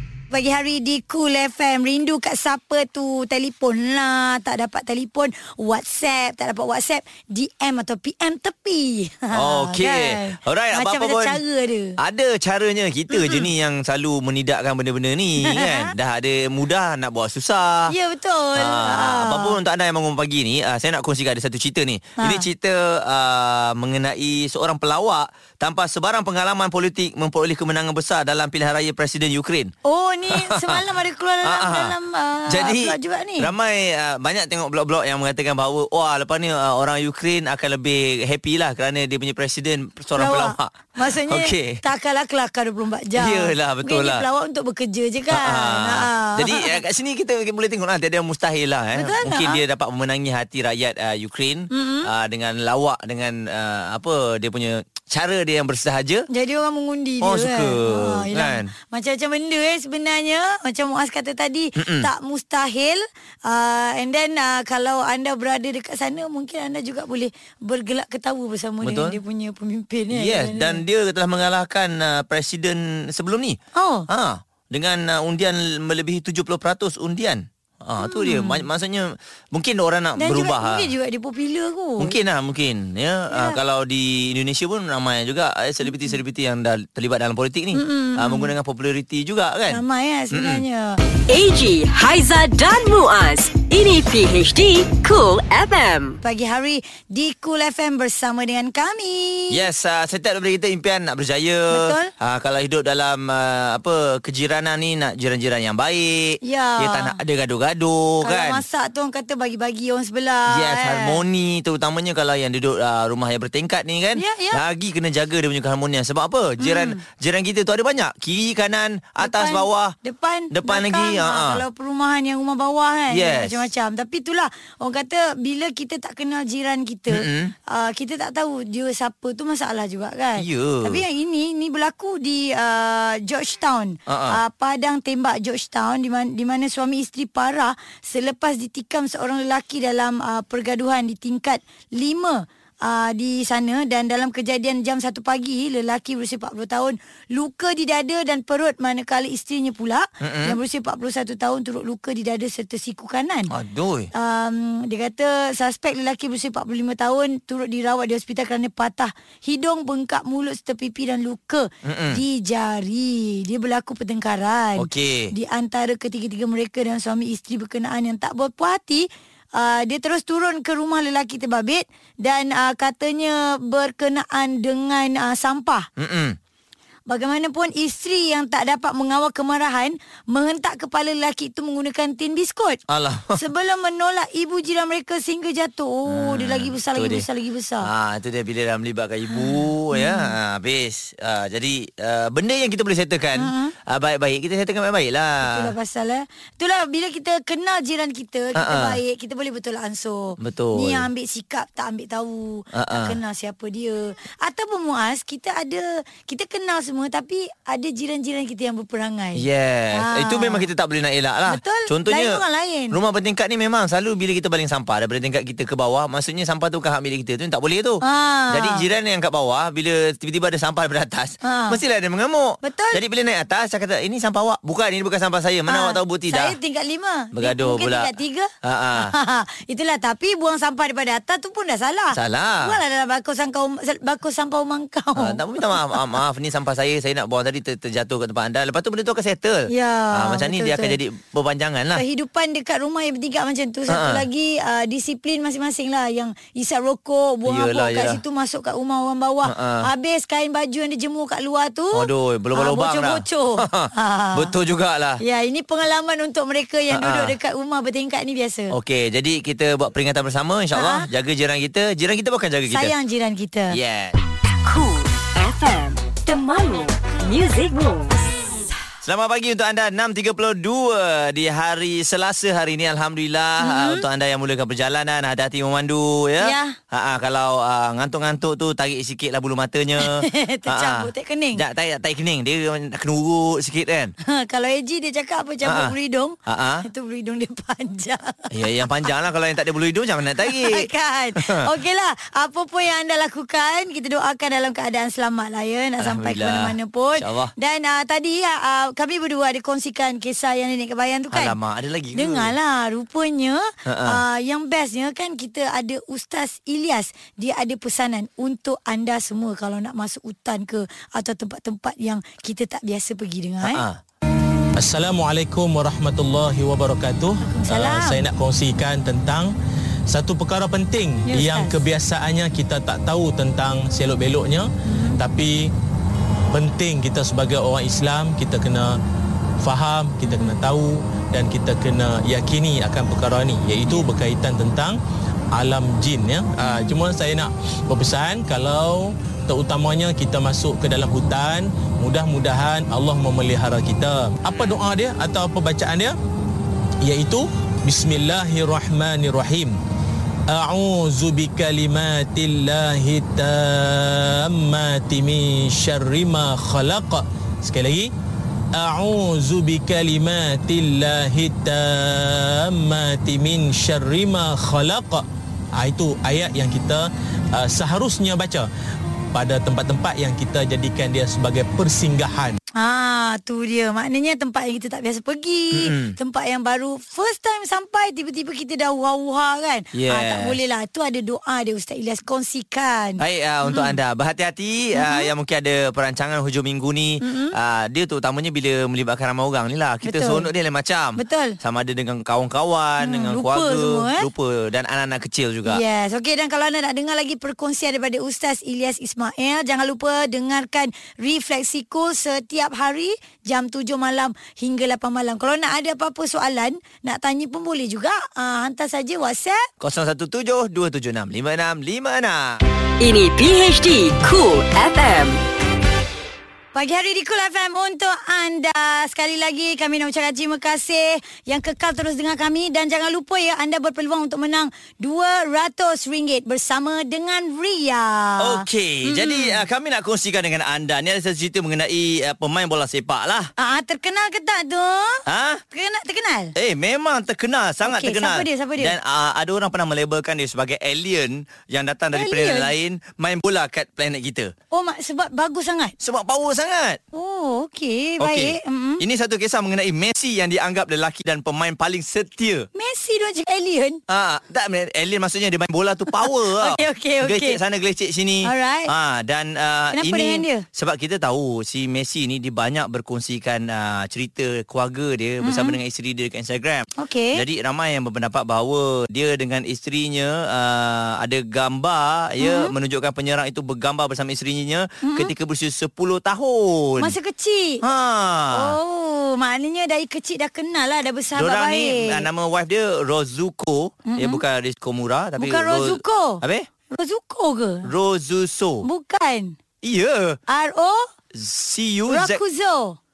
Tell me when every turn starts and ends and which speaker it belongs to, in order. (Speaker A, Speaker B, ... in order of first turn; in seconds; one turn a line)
Speaker A: 0.3-12.0
Speaker B: 9.3-11.4
Speaker B: 12.0-17.9
Speaker A: 13.1-13.5
Speaker A: 15.4-15.9
Speaker A: 17.9-19.6
Speaker B: 18.6-29.7
Speaker A: 22.2-22.5
Speaker A: 29.9-33.5
Speaker B: 30.3-30.8
Speaker B: 31.4-31.9
Speaker B: 32.5-41.8
Speaker A: 40.2-46.8
Speaker B: 43.2-44.2
Speaker B: 45.3-56.3
Speaker A: 49.0-49.6
Speaker A: 51.7-52.1
Speaker A: 56.3-70.8
Speaker B: 57.2-58.7
Speaker B: 61.8-62.1
Speaker B: 68.8-69.2
Speaker B: 70.1-80.9
Speaker A: 73.8-74.1
Speaker A: 78.0-78.7
Speaker A: 80.2-82.2
Speaker B: 82.0-90.6
Speaker A: 83.3-83.6
Speaker A: 87.7-88.5
Speaker A: 89.7-91.0
Speaker C: 91.3-96.2
Speaker A: 96.2-99.6
Speaker B: 99.5-108.6
Speaker A: 101.7-102.1
Speaker A: 106.4-107.2
Speaker A: 108.2-111.2
Speaker B: 110.5-120.0
Speaker A: 114.2-114.6
Speaker A: 116.6-117.0
Speaker A: 119.2-153.5
Speaker B: 120.5-121.6
Speaker B: 123.1-123.7
Speaker B: 127.1-127.5
Speaker B: 130.4-131.0
Speaker B: 134.1-134.4
Speaker B: 150.2-150.6
Speaker B: 153.5-154.1
Speaker A: 154.1-175.9
Speaker B: 161.8-162.2
Speaker B: 164.8-165.3
Speaker B: 176.0-176.4
Speaker A: 177.1-182.8
Speaker B: 182.9-183.4
Speaker A: 183.3-187.9
Speaker B: 186.1-187.3
Speaker B: 187.8-195.7
Speaker A: 189.3-190.3
Speaker A: 193.4-193.8
Speaker A: 195.4-210.7
Speaker B: 198.6-199.0
Speaker B: 200.4-201.1
Speaker B: 202.7-203.2
Speaker B: 209.4-226.6
Speaker A: 211.5-213.0
Speaker A: 218.0-218.9
Speaker A: 221.4-221.8
Speaker A: 222.6-223.0
Speaker A: 225.7-235.4
Speaker B: 227.3-228.1
Speaker B: 228.6-229.1
Speaker B: 232.1-232.8
Speaker B: 235.2-242.0
Speaker A: 239.7-241.0
Speaker A: 241.9-254.5
Speaker B: 243.9-244.2
Speaker B: 247.5-248.2
Speaker B: 249.4-249.9
Speaker B: 251.9-255.2
Speaker A: 255.2-258.8
Speaker B: 256.9-257.4
Speaker B: 258.7-262.9
Speaker A: 260.7-261.1
Speaker A: 262.7-263.8
Speaker B: 263.7-264.2
Speaker C: 264.6-268.3
Speaker B: 269.0-284.1
Speaker A: 273.6-274.1
Speaker A: 276.4-276.8
Speaker A: 280.0-281.6
Speaker A: 284.2-288.5
Speaker B: 285.6-285.9
Speaker B: 286.5-286.9
Speaker B: 288.5-291.7
Speaker A: 290.4-301.6
Speaker B: 296.0-297.5
Speaker B: 301.3-302.5
Speaker A: 302.1-313.8
Speaker B: 303.9-304.2
Speaker B: 313.6-314.0
Speaker D: 314.8-319.5
Speaker A: 317.4-318.2
Speaker D: 320.1-325.7
Speaker A: 321.3-321.9
Speaker A: 324.9-325.2
Speaker D: 326.5-329.0
Speaker D: 329.6-335.0
Speaker A: 330.3-330.6
Speaker D: 335.6-346.1
Speaker A: 336.6-337.0
Speaker B: 344.5-344.8
Speaker D: 347.0-349.8
Speaker D: 350.5-358.1
Speaker D: 358.8-365.2
Speaker D: 365.8-367.1
Speaker D: 367.6-368.7
Speaker D: 369.3-372.6
Speaker A: 372.8-384.0
Speaker B: 375.7-376.2
Speaker B: 379.9-380.6
Speaker B: 383.2-395.8
Speaker A: 384.9-385.3
Speaker A: 387.2-387.6
Speaker A: 390.0-390.5
Speaker A: 391.2-391.6
Speaker A: 393.0-394.3
Speaker A: 395.6-409.7
Speaker B: 409.8-412.6
Speaker C: 413.0-415.4
Speaker A: 416.7-429.6
Speaker B: 428.4-433.5
Speaker A: 433.6-436.5
Speaker B: 435.3-435.6
Speaker B: 436.6-444.5
Speaker A: 437.8-438.9
Speaker A: 442.1-442.7
Speaker A: 444.7-445.9
Speaker B: 446.0-447.0
Speaker A: 447.1-449.0
Speaker B: 448.2-452.7
Speaker A: 452.8-454.0
Speaker B: 454.1-477.1
Speaker A: 456.1-457.6
Speaker A: 458.4-458.9
Speaker A: 459.9-460.6
Speaker A: 465.4-465.8
Speaker A: 467.0-467.4
Speaker A: 472.4-472.7
Speaker A: 475.0-475.3
Speaker A: 477.0-477.8
Speaker B: 477.8-478.8
Speaker A: 478.5-482.3
Speaker B: 481.4-486.7
Speaker A: 484.1-484.4
Speaker A: 485.4-487.9
Speaker B: 487.8-488.9
Speaker A: 488.8-489.6
Speaker B: 489.8-490.4
Speaker A: 490.5-491.1
Speaker B: 491.3-492.4
Speaker A: 492.1-493.0